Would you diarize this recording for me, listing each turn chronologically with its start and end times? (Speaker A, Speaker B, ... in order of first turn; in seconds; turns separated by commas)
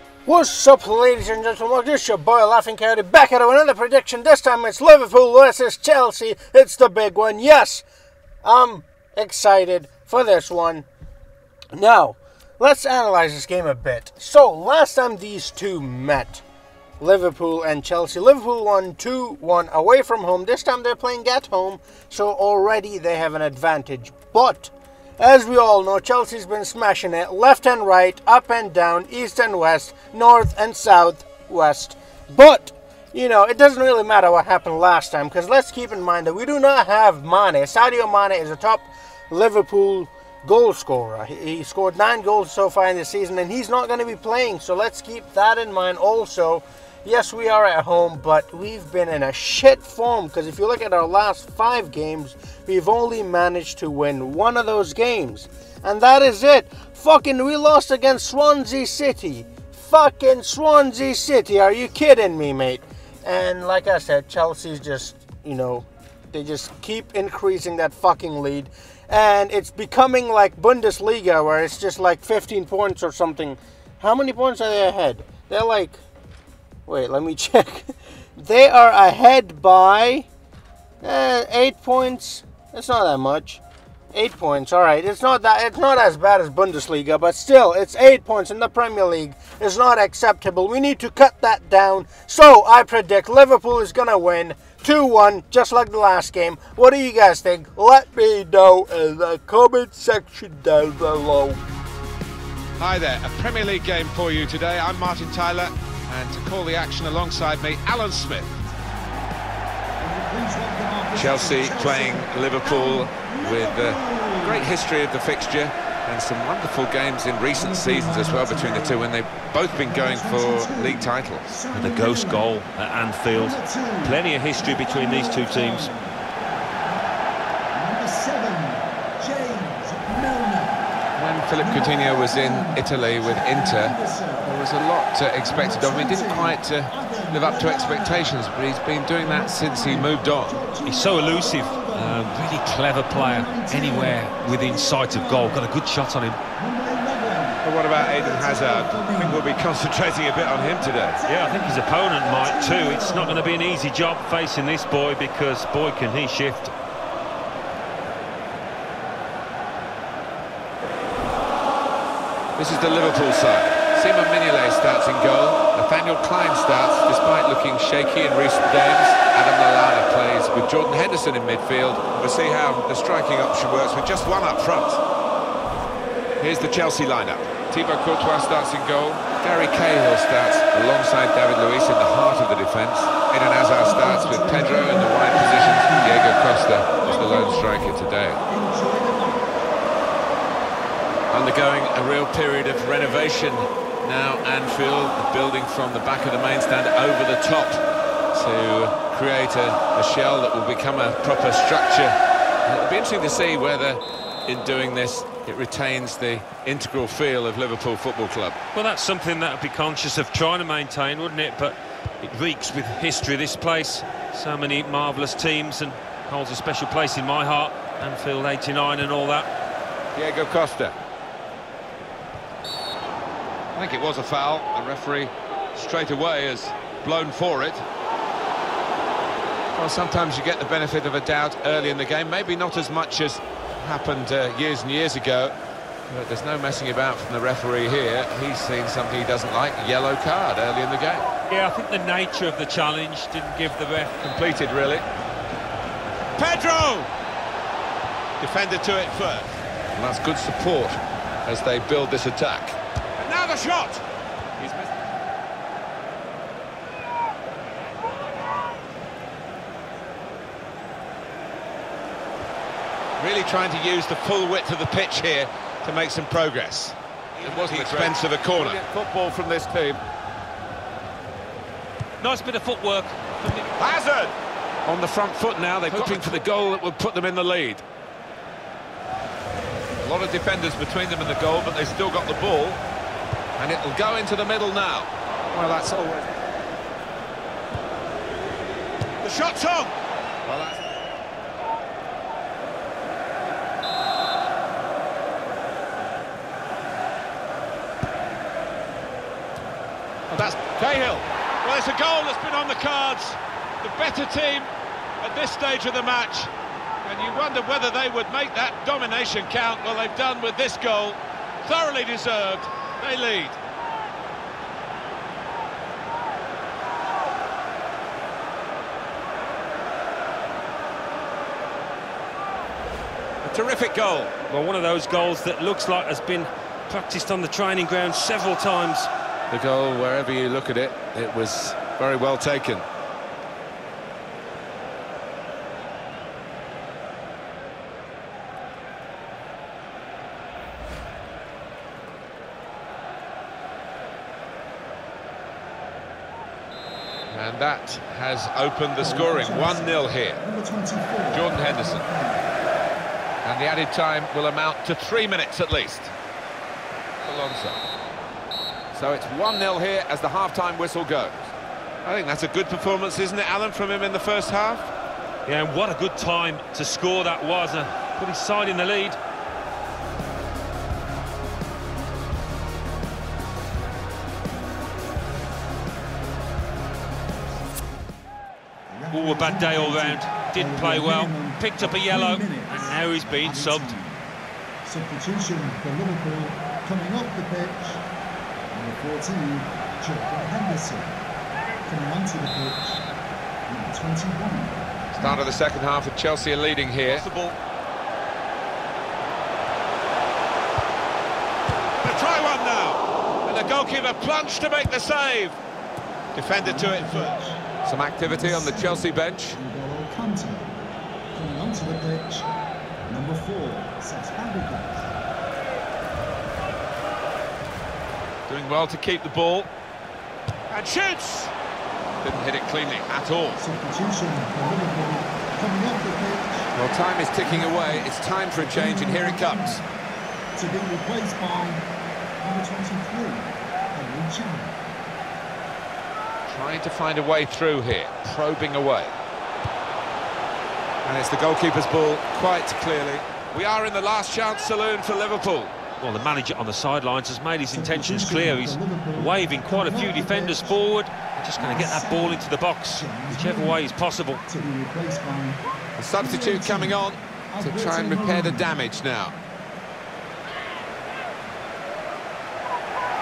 Speaker A: 0.2-7.8, Speaker A: 8.4-10.8, Speaker A: 11.7-16.4, Speaker A: 17.0-76.0, Speaker A: 76.8-80.3, Speaker A: 81.0-83.6, Speaker A: 84.1-101.6, Speaker B: 102.8-108.6, Speaker C: 110.0-114.7, Speaker B: 111.1-121.5, Speaker C: 117.5-119.1, Speaker C: 119.7-122.5, Speaker D: 121.7-125.9, Speaker C: 123.3-127.0, Speaker C: 127.7-130.9, Speaker B: 131.1-140.6, Speaker C: 131.6-134.6, Speaker C: 135.4-138.4, Speaker C: 139.2-142.4, Speaker D: 140.8-146.4, Speaker C: 143.1-145.8, Speaker C: 146.5-149.6, Speaker B: 147.6-151.2, Speaker C: 150.3-153.5, Speaker D: 151.2-156.7, Speaker B: 162.6-175.0, Speaker B: 176.4-188.4, Speaker C: 183.8-187.9, Speaker C: 188.4-189.7, Speaker B: 191.3-197.8, Speaker B: 198.3-208.6, Speaker D: 208.7-219.5, Speaker B: 220.1-220.9, Speaker B: 223.7-227.8, Speaker B: 229.7-235.5, Speaker B: 236.1-241.3, Speaker D: 241.5-244.2, Speaker B: 244.2-245.1, Speaker B: 246.3-247.1, Speaker B: 248.4-254.0, Speaker B: 254.6-254.9, Speaker B: 263.2-270.0, Speaker D: 272.2-273.8, Speaker B: 273.8-274.3, Speaker B: 274.9-277.8, Speaker D: 275.9-276.4, Speaker B: 280.0-282.8, Speaker B: 283.6-286.3, Speaker B: 289.2-289.9, Speaker B: 290.4-290.9, Speaker B: 300.3-304.7, Speaker B: 305.2-306.5, Speaker B: 307.0-313.6, Speaker B: 323.4-324.3, Speaker D: 324.5-329.1, Speaker B: 329.5-332.9, Speaker B: 347.3-350.4, Speaker C: 349.0-352.5, Speaker B: 351.3-352.0, Speaker B: 353.4-356.1, Speaker B: 357.2-357.8, Speaker B: 358.9-364.9, Speaker D: 365.4-369.2, Speaker C: 378.9-384.3, Speaker D: 379.1-383.9, Speaker C: 384.8-388.0, Speaker C: 388.7-391.2, Speaker C: 391.9-393.0, Speaker C: 393.7-395.4, Speaker B: 395.1-397.3, Speaker D: 397.1-397.5, Speaker B: 401.9-405.6, Speaker B: 406.3-409.6, Speaker C: 406.5-407.6, Speaker C: 408.2-410.8, Speaker C: 411.3-412.5, Speaker C: 413.1-415.1, Speaker B: 418.5-419.7, Speaker B: 420.7-421.5, Speaker B: 422.2-423.6, Speaker C: 423.6-426.7, Speaker B: 426.7-429.8, Speaker C: 427.4-429.9, Speaker C: 430.6-431.9, Speaker C: 432.4-434.8, Speaker B: 436.5-439.2, Speaker B: 441.0-445.8, Speaker D: 446.0-454.4, Speaker C: 447.7-450.8, Speaker C: 451.6-453.9, Speaker C: 454.4-455.6, Speaker B: 456.0-459.4, Speaker C: 456.1-458.8